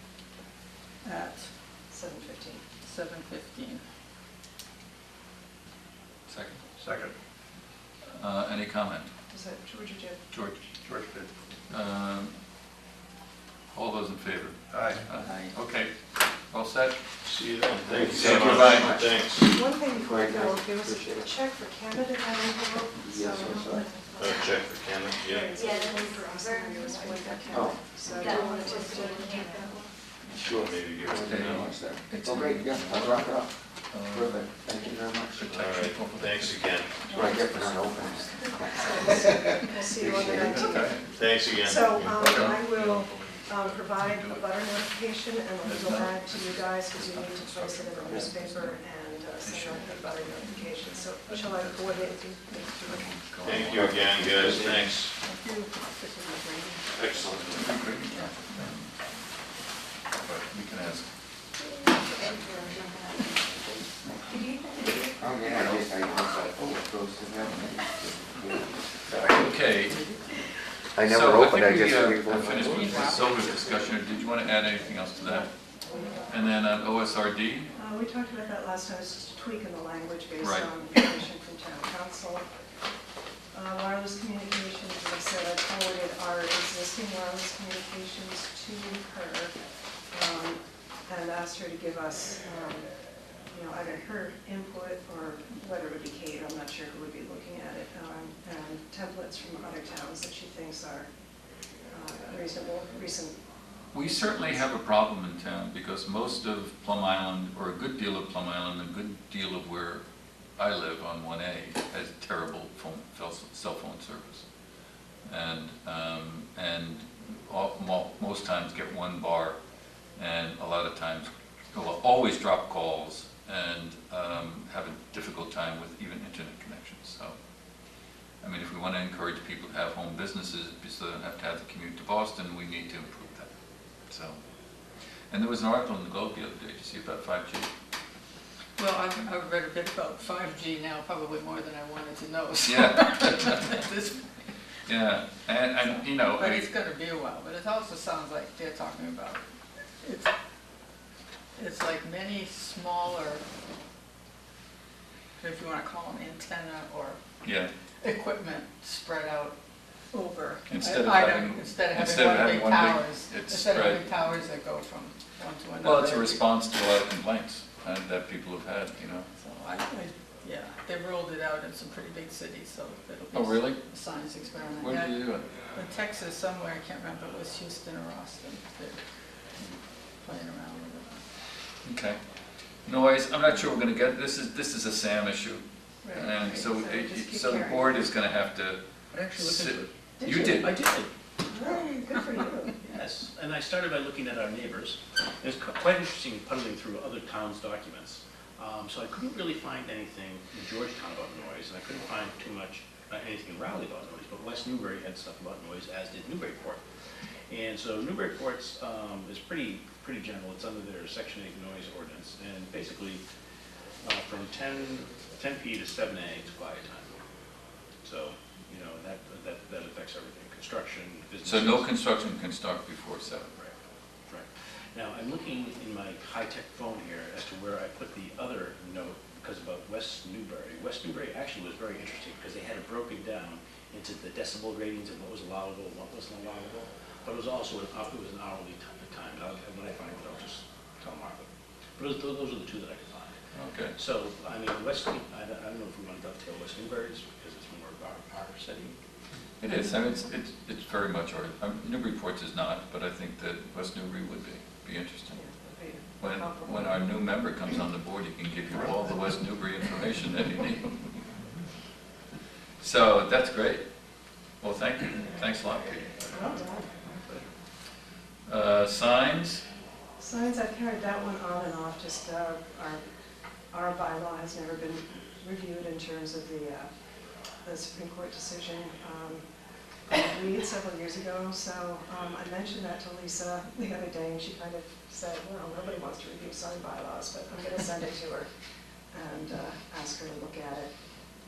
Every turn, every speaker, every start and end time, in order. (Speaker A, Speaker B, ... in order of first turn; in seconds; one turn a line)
Speaker A: 1.0-1.5
Speaker B: 1.9-2.6
Speaker A: 2.8-3.8
Speaker C: 6.3-6.6
Speaker C: 8.1-9.1
Speaker B: 9.3-10.2
Speaker C: 10.3-10.6
Speaker C: 11.7-12.3
Speaker C: 13.7-15.9
Speaker A: 15.2-15.6
Speaker C: 16.5-17.0
Speaker D: 17.2-19.4
Speaker E: 17.9-19.2
Speaker C: 18.0-19.1
Speaker B: 19.4-29.9
Speaker E: 19.8-21.3
Speaker E: 23.0-23.9
Speaker D: 24.2-25.5
Speaker F: 25.5-29.8
Speaker E: 27.5-27.8
Speaker C: 30.3-30.5
Speaker E: 30.4-35.6
Speaker D: 30.4-31.6
Speaker C: 31.2-34.6
Speaker C: 35.3-38.4
Speaker D: 35.6-37.0
Speaker E: 37.1-40.9
Speaker B: 37.1-37.4
Speaker B: 38.5-53.0
Speaker C: 40.4-41.1
Speaker D: 41.1-42.5
Speaker C: 42.1-44.5
Speaker C: 45.6-48.8
Speaker C: 49.4-50.4
Speaker C: 51.4-52.1
Speaker C: 52.8-54.8
Speaker D: 53.4-55.1
Speaker A: 55.2-58.4
Speaker D: 57.0-57.7
Speaker C: 57.2-58.9
Speaker C: 60.2-61.1
Speaker A: 62.0-63.2
Speaker C: 62.3-62.6
Speaker F: 64.3-66.2
Speaker E: 64.9-70.2
Speaker C: 69.2-70.0
Speaker E: 70.9-73.2
Speaker C: 71.0-75.5
Speaker A: 72.6-73.5
Speaker C: 76.3-77.7
Speaker B: 77.7-82.4
Speaker C: 80.4-81.1
Speaker B: 83.5-89.5
Speaker B: 90.1-92.9
Speaker B: 93.5-101.1
Speaker B: 101.9-103.4
Speaker C: 103.9-110.0
Speaker B: 104.0-104.7
Speaker C: 110.6-114.4
Speaker C: 115.2-119.6
Speaker C: 120.2-127.3
Speaker C: 128.4-133.5
Speaker C: 134.1-134.4
Speaker C: 135.3-137.7
Speaker A: 138.8-144.3
Speaker C: 142.6-143.8
Speaker C: 144.8-146.7
Speaker A: 146.3-149.4
Speaker A: 150.0-150.3
Speaker A: 151.6-153.4
Speaker A: 155.4-157.2
Speaker C: 157.4-157.7
Speaker A: 158.0-159.6
Speaker A: 160.1-166.4
Speaker C: 160.7-164.1
Speaker C: 165.8-169.3
Speaker A: 169.4-175.2
Speaker C: 173.3-173.8
Speaker C: 174.8-175.4
Speaker A: 175.7-179.0
Speaker A: 180.2-181.2
Speaker C: 181.8-182.2
Speaker C: 182.8-188.8
Speaker B: 186.0-188.1
Speaker G: 189.1-191.1
Speaker C: 189.3-190.8
Speaker B: 190.3-190.6
Speaker B: 191.5-192.7
Speaker A: 191.6-192.1
Speaker G: 192.8-206.8
Speaker G: 207.5-213.2
Speaker G: 214.0-217.2
Speaker G: 218.0-221.9
Speaker C: 221.4-223.5
Speaker G: 224.3-241.4
Speaker G: 242.0-243.4
Speaker C: 243.5-244.0
Speaker G: 243.9-248.9
Speaker C: 249.6-255.4
Speaker B: 255.3-256.9
Speaker C: 256.2-261.0
Speaker C: 262.8-263.8
Speaker C: 264.6-266.2
Speaker B: 266.3-266.9
Speaker C: 268.5-269.6
Speaker B: 270.2-273.0
Speaker B: 273.7-276.9
Speaker B: 277.6-279.4
Speaker B: 280.1-288.5
Speaker B: 289.1-290.9